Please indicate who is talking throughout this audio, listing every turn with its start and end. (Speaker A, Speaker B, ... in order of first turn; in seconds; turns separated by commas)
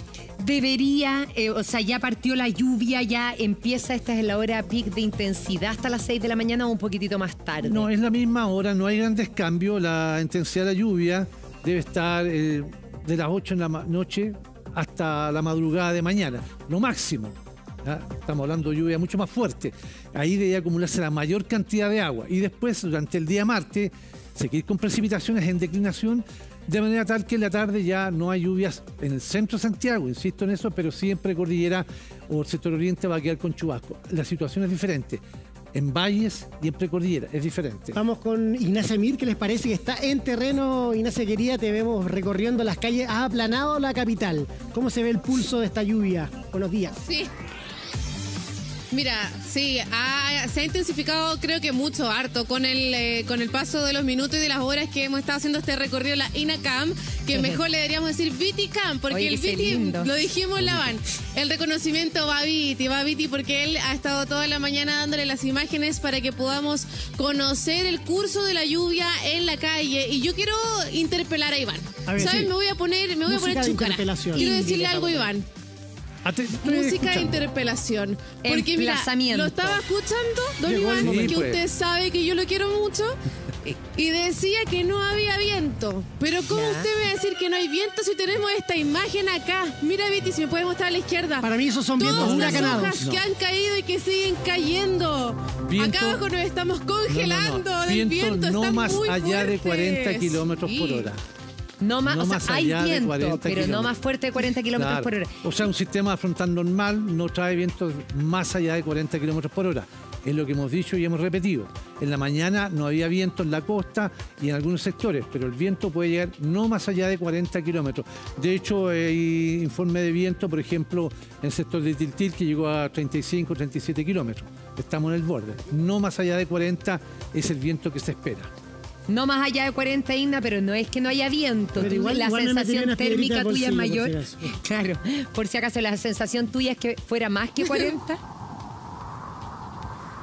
Speaker A: 0.4-7.9, Speaker B: 7.6-35.2, Speaker B: 35.7-38.0, Speaker C: 37.9-46.9, Speaker D: 47.0-47.3, Speaker D: 48.9-75.5, Speaker A: 57.3-57.6, Speaker A: 59.1-60.1, Speaker C: 72.1-72.5, Speaker B: 72.2-72.5, Speaker C: 73.2-74.5, Speaker A: 74.3-75.3, Speaker B: 76.2-77.4, Speaker D: 76.6-101.1, Speaker A: 78.4-79.8, Speaker C: 80.6-81.4, Speaker B: 81.0-81.6, Speaker A: 86.5-86.9, Speaker C: 91.4-93.0, Speaker B: 92.0-93.2, Speaker B: 95.6-96.2, Speaker B: 97.1-101.2, Speaker A: 101.8-105.3, Speaker B: 102.0-103.9, Speaker B: 104.7-128.5, Speaker A: 129.1-138.2, Speaker C: 131.8-134.5, Speaker D: 137.6-137.9